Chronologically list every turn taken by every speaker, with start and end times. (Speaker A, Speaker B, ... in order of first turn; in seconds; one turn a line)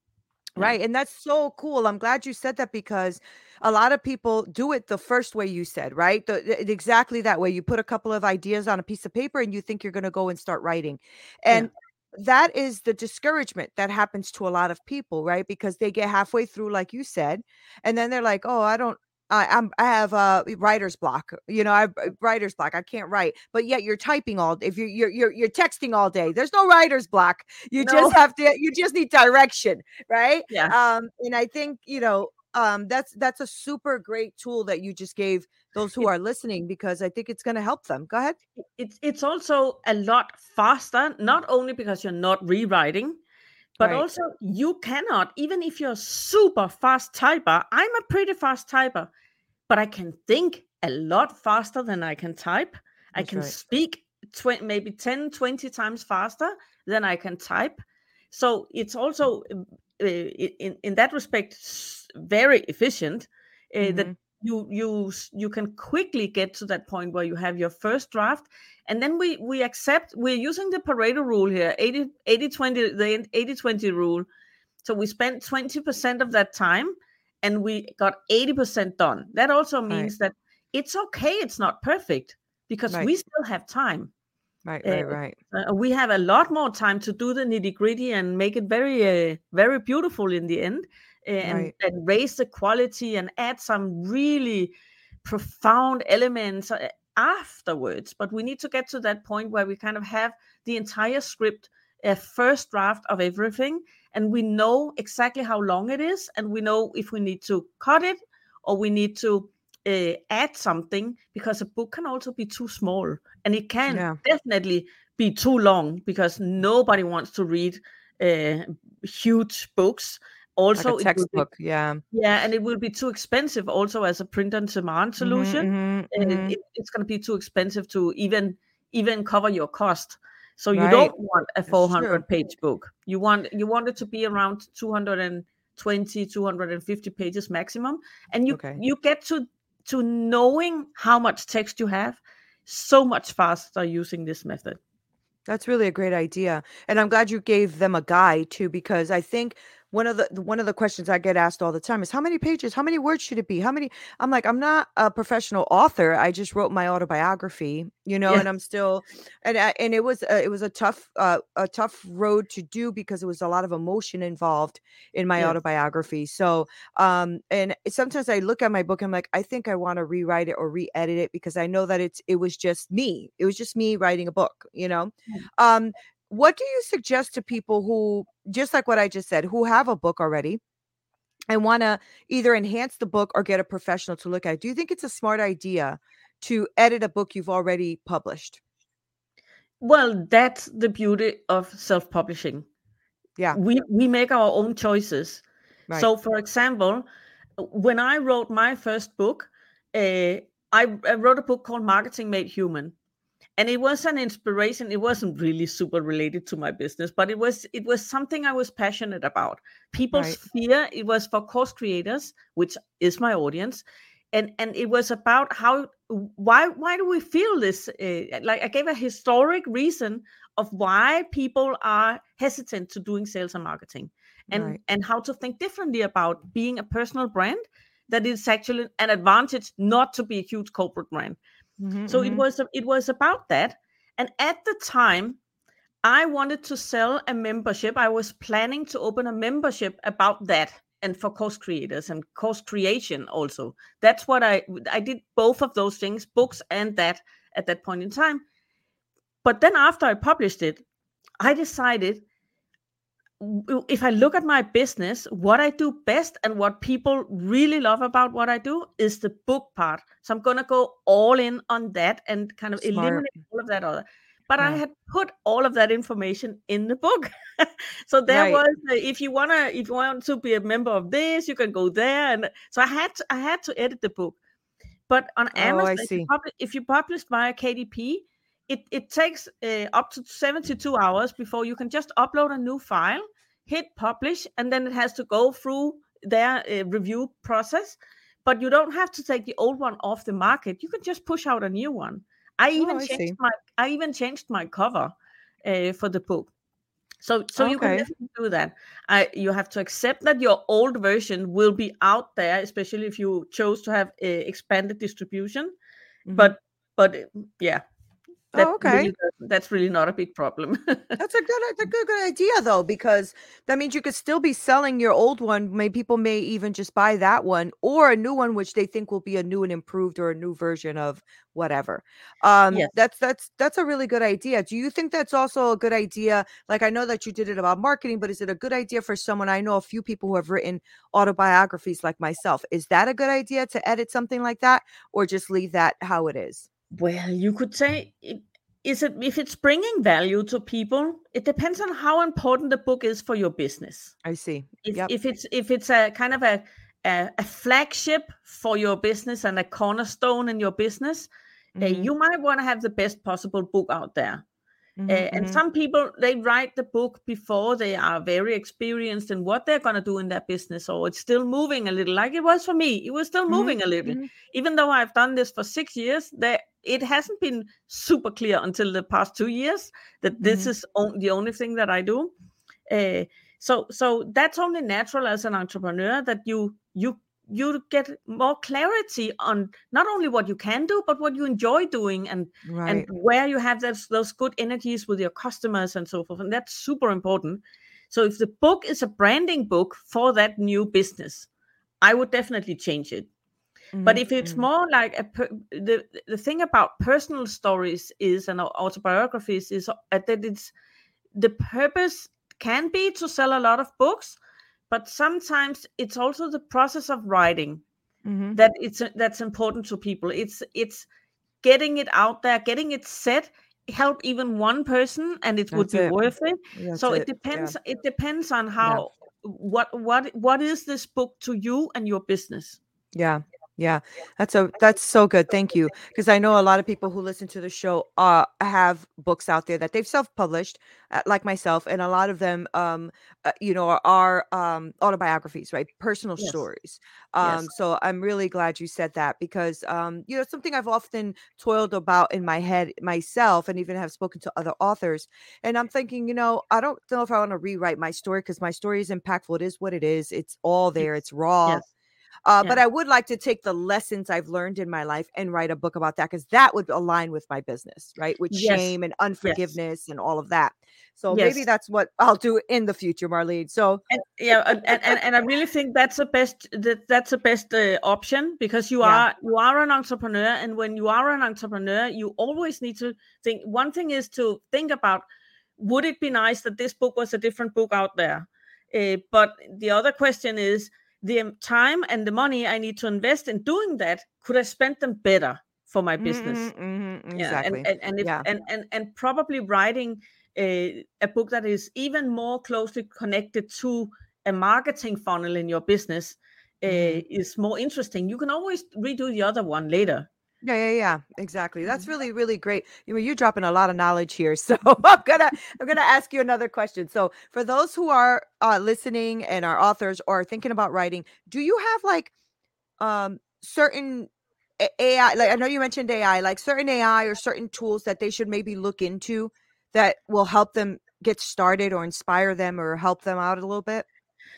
Speaker A: 0.6-38.4
Speaker B: 27.8-28.2
Speaker B: 30.5-30.7
Speaker B: 38.6-43.2
Speaker A: 43.8-44.0
Speaker B: 43.8-49.1
Speaker B: 49.7-57.8
Speaker A: 53.2-53.5
Speaker B: 58.3-74.2
Speaker A: 63.8-64.1
Speaker B: 74.8-84.1
Speaker A: 84.7-85.4
Speaker B: 84.8-94.7
Speaker A: 91.4-91.7
Speaker B: 95.2-121.5
Speaker A: 113.9-114.2
Speaker A: 120.8-122.0
Speaker B: 122.1-144.8
Speaker A: 125.2-126.5
Speaker A: 130.7-131.1
Speaker A: 131.7-132.2
Speaker A: 138.5-138.8
Speaker A: 145.5-180.6
Speaker A: 181.5-188.6
Speaker B: 189.8-192.7
Speaker B: 193.5-197.0
Speaker B: 197.6-202.9
Speaker B: 203.6-231.4
Speaker A: 224.5-224.8
Speaker A: 231.8-232.4
Speaker B: 232.1-235.4
Speaker B: 236.0-248.4
Speaker B: 249.4-250.8
Speaker B: 251.4-252.2
Speaker B: 253.4-274.4
Speaker A: 262.8-263.3
Speaker A: 268.3-268.6
Speaker B: 275.1-295.1
Speaker A: 275.6-276.3
Speaker A: 292.8-293.4
Speaker B: 295.6-296.5
Speaker B: 297.2-305.7
Speaker A: 297.6-298.1
Speaker A: 306.2-306.5
Speaker B: 306.3-307.8
Speaker A: 308.5-309.1
Speaker B: 308.5-311.2
Speaker A: 311.2-336.7
Speaker B: 336.9-344.1
Speaker A: 344.2-345.1
Speaker B: 344.8-351.3
Speaker A: 351.8-352.1
Speaker B: 351.8-354.4
Speaker A: 355.0-355.6
Speaker B: 355.1-372.3
Speaker A: 363.5-364.3
Speaker A: 370.4-370.7
Speaker B: 372.9-391.5
Speaker A: 382.6-383.1
Speaker B: 392.0-393.3
Speaker A: 393.9-394.6
Speaker B: 394.0-400.7
Speaker B: 401.3-404.4
Speaker B: 404.9-407.8
Speaker A: 408.2-408.6
Speaker B: 408.5-411.1
Speaker B: 411.6-422.8
Speaker A: 415.7-416.1
Speaker A: 416.7-417.7
Speaker A: 423.1-451.8
Speaker B: 437.4-437.6
Speaker A: 452.4-464.0
Speaker B: 458.5-459.7
Speaker B: 461.3-461.6
Speaker B: 464.1-475.2
Speaker B: 475.8-486.7
Speaker A: 486.2-488.4
Speaker B: 487.4-500.3
Speaker A: 496.9-497.2
Speaker A: 500.6-512.3
Speaker A: 513.0-524.0